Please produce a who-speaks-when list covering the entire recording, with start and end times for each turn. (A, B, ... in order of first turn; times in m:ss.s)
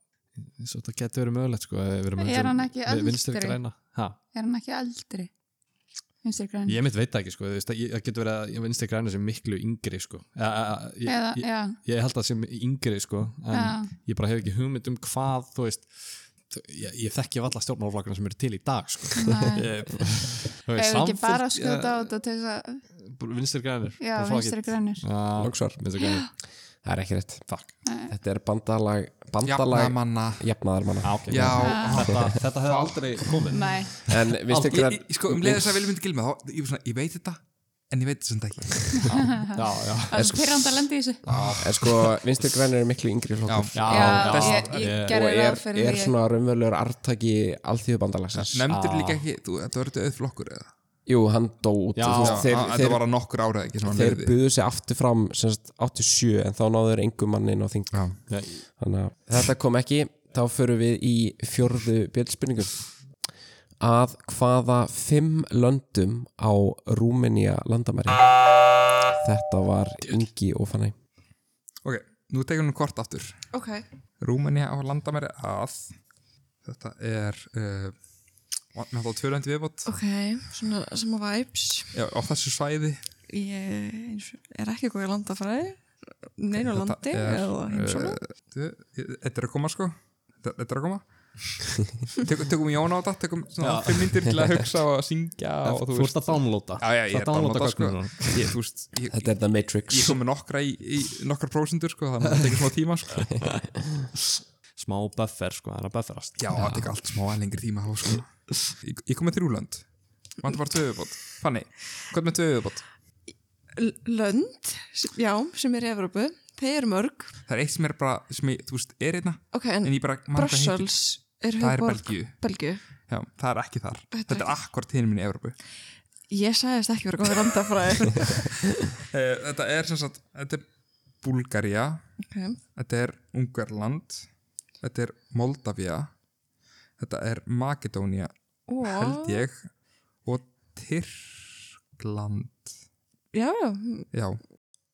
0:00.4-0:04.2 A
0:02.2-0:03.6 B
0:04.3-0:05.3 B
0:06.2-0:06.8 B
0:06.7-0:22.1 A
0:11.0-0:11.8 B
0:13.5-0:13.9 B
0:19.2-0:19.7 B
0:20.8-0:22.8 B
0:23.1-0:26.2 A
0:24.0-0:25.0 B
0:25.4-0:25.8 C
0:26.8-0:27.5 C
0:27.8-0:28.1 B
0:28.1-0:32.2 C
0:29.4-0:30.5 D
0:31.0-0:35.6 A
0:31.3-0:33.2 D
0:31.6-0:32.0 B
0:33.5-0:33.9 B
0:34.1-0:35.6 C
0:34.7-0:39.2 D
0:38.9-0:39.6 B
0:39.1-0:40.3 A
0:40.1-0:41.2 B
0:40.1-0:40.5 C
0:41.2-0:42.0 A
0:41.3-0:41.6 D
0:41.6-0:48.6 C
0:43.5-0:44.7 D
0:43.7-0:45.2 A
0:43.9-0:46.1 B
0:48.3-0:50.7 D
0:48.7-0:49.2 A
0:51.0-0:53.0 C
0:51.9-0:52.5 A
0:52.2-0:54.3 D
0:53.8-1:02.8 C
0:57.9-0:58.2 D
0:58.3-0:58.6 A
1:03.8-1:08.3 C
1:09.2-1:10.9 C
1:11.8-1:13.4 D
1:13.5-1:13.8 E
1:14.2-1:15.9 D
1:16.6-1:18.0 D
1:18.7-1:19.9 D
1:19.8-1:21.9 E
1:21.9-1:23.0 D
1:23.3-1:28.2 E
1:26.6-1:43.6 D
1:33.6-1:34.3 A
1:35.6-1:38.6 A
1:39.1-1:40.2 C
1:44.3-1:47.0 A
1:46.4-1:52.8 D
1:53.8-1:57.4 E
1:57.5-2:02.4 D
1:59.5-2:02.9 E
2:03.0-2:05.6 D
2:04.1-2:04.5 E
2:06.3-2:08.9 E
2:09.0-2:10.7 D
2:11.2-2:12.1 D
2:12.2-2:12.6 E
2:12.7-2:14.2 D
2:14.8-2:16.1 D
2:17.0-2:18.3 D
2:18.7-2:19.4 E
2:18.8-2:19.7 D
2:20.2-2:22.7 D
2:23.3-2:24.1 E
2:24.1-2:24.4 D